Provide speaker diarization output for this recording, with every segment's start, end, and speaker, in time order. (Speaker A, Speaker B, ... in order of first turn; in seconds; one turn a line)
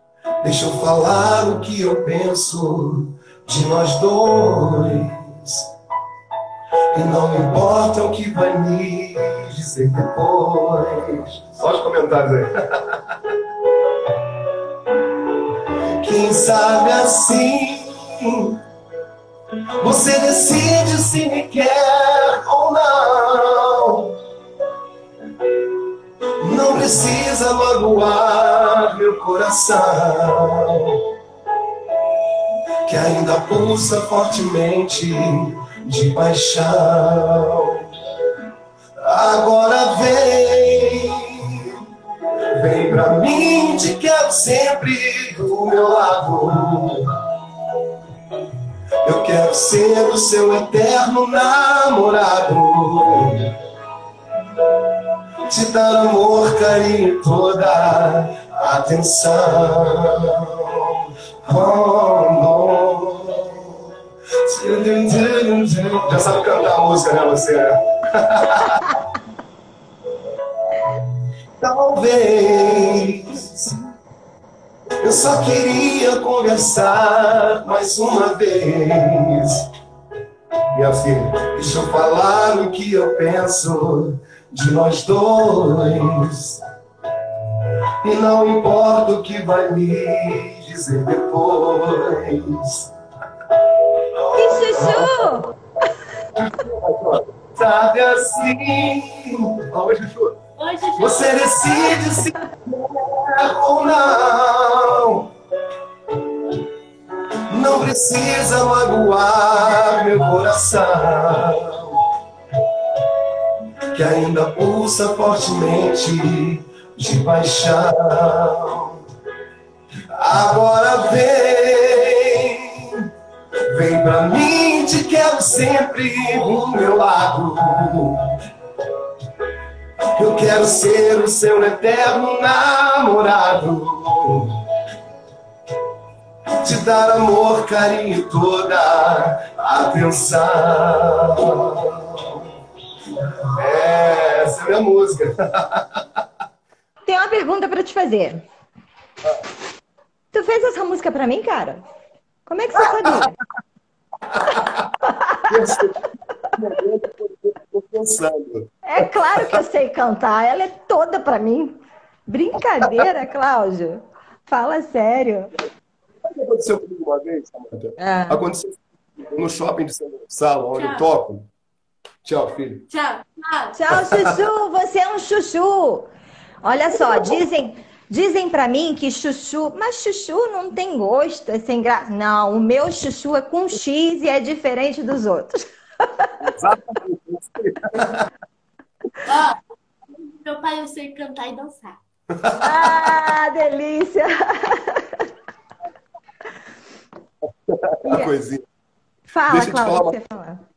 Speaker A: 0.4-5.7
Speaker A: 6.9-13.4
Speaker A: 14.0-14.5
Speaker A: 15.5-18.6
Speaker A: 19.8-24.2
Speaker A: 26.4-31.1
Speaker A: 32.8-37.9
Speaker A: 39.0-41.9
Speaker A: 42.6-47.2
Speaker A: 49.0-53.5
Speaker A: 55.5-63.9
Speaker A: 64.4-69.0
Speaker A: 71.6-73.8
Speaker A: 75.0-79.7
Speaker A: 80.7-86.6
Speaker A: 87.6-92.9
Speaker A: 93.9-95.5
Speaker B: 94.3-95.5
Speaker A: 96.3-100.4
Speaker C: 100.6-102.0
Speaker A: 101.0-105.3
Speaker A: 107.5-112.0
Speaker A: 113.9-119.0
Speaker A: 120.1-123.1
Speaker A: 123.7-128.4
Speaker A: 130.1-134.6
Speaker A: 136.5-142.5
Speaker A: 143.1-146.2
Speaker B: 147.1-148.4
Speaker B: 150.3-151.8
Speaker B: 152.5-153.3
Speaker A: 152.8-153.2
Speaker A: 154.3-158.7
Speaker B: 155.1-155.5
Speaker B: 158.8-165.6
Speaker A: 166.2-171.5
Speaker B: 168.0-168.4
Speaker C: 170.7-171.1
Speaker A: 172.2-172.9
Speaker C: 172.9-173.7
Speaker B: 173.7-176.1
Speaker A: 173.9-174.4
Speaker B: 176.6-186.3
Speaker A: 176.9-177.4
Speaker A: 186.4-188.3
Speaker C: 189.2-189.6
Speaker C: 190.1-192.0
Speaker A: 192.4-192.9
Speaker B: 192.6-195.2
Speaker A: 197.7-198.6
Speaker B: 198.0-198.3
Speaker B: 199.3-200.6
Speaker A: 199.5-200.2